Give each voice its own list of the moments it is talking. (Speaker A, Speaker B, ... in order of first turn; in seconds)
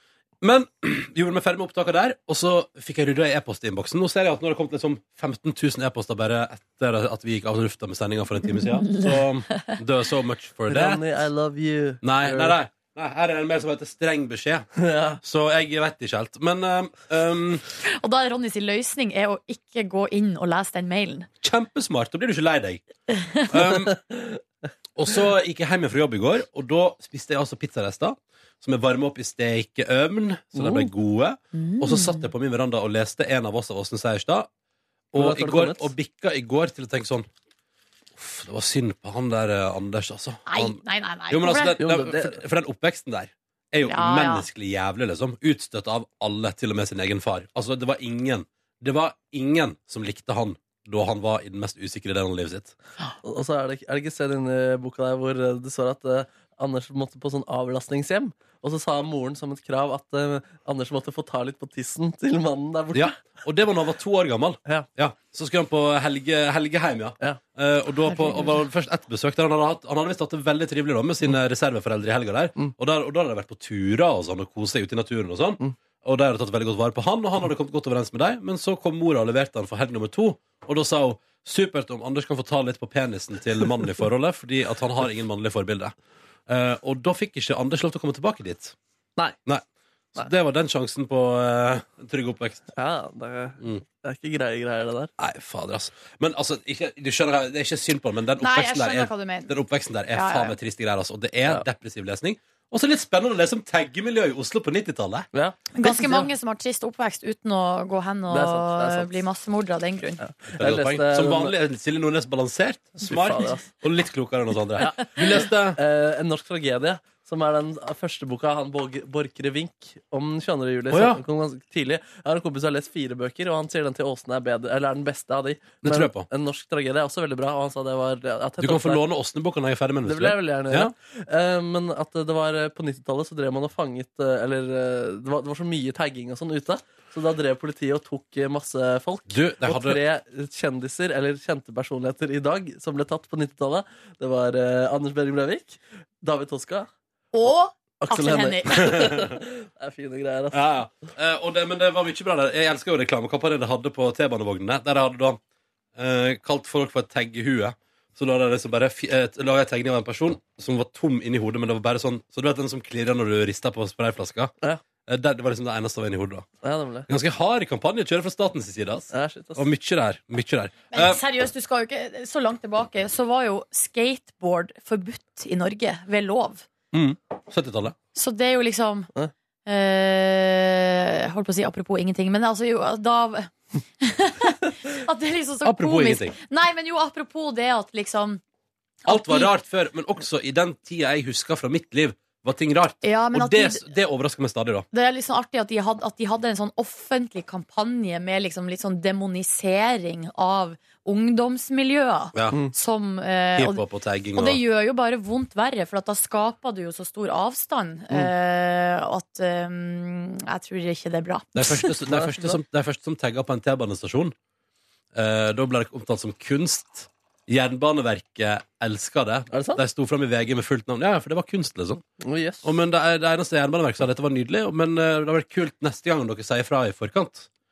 Speaker A: 0.4-11.0, 12.0-14.7, 15.2-17.6, 21.4-22.8, 23.4-24.0, 24.9-34.5, 35.1-37.3, 38.2-52.7, 62.9-85.9, 86.5-88.7, 90.1-92.7, 95.2-105.3, 110.5-115.8, 120.9-121.2, 125.8-126.3, 128.6-130.9, 139.3-140.0, 150.5-155.4, 155.9-164.5, 165.1-166.5, 167.1-171.2, 176.9-177.9, 185.6-186.3, 189.1-194.8, 203.6-204.6, 211.5-214.3, 215.1-222.0, 222.6-227.5
Speaker B: 8.8-9.8, 17.8-21.3, 23.1-23.5, 31.5-32.3, 40.5-41.8, 43.9-44.5, 68.1-68.7, 98.4-99.5, 100.1-100.5, 105.7-110.2, 147.3-149.1, 170.9-176.7, 178.1-179.1, 179.7-188.4, 189.0-189.5, 193.0-193.9, 194.9-211.9
Speaker C: 10.7-12.6, 14.8-15.2, 23.6-24.4, 30.6-30.9, 35.1-35.9, 41.8-42.4, 53.2-63.1, 92.8-95.1, 105.3-106.3, 108.3-109.2, 110.2-111.5, 113.0-113.7, 114.8-129.0, 130.0-146.9, 148.0-150.8, 166.6-167.1, 169.1-169.7, 212.0-212.6, 219.5-219.8, 222.2-222.7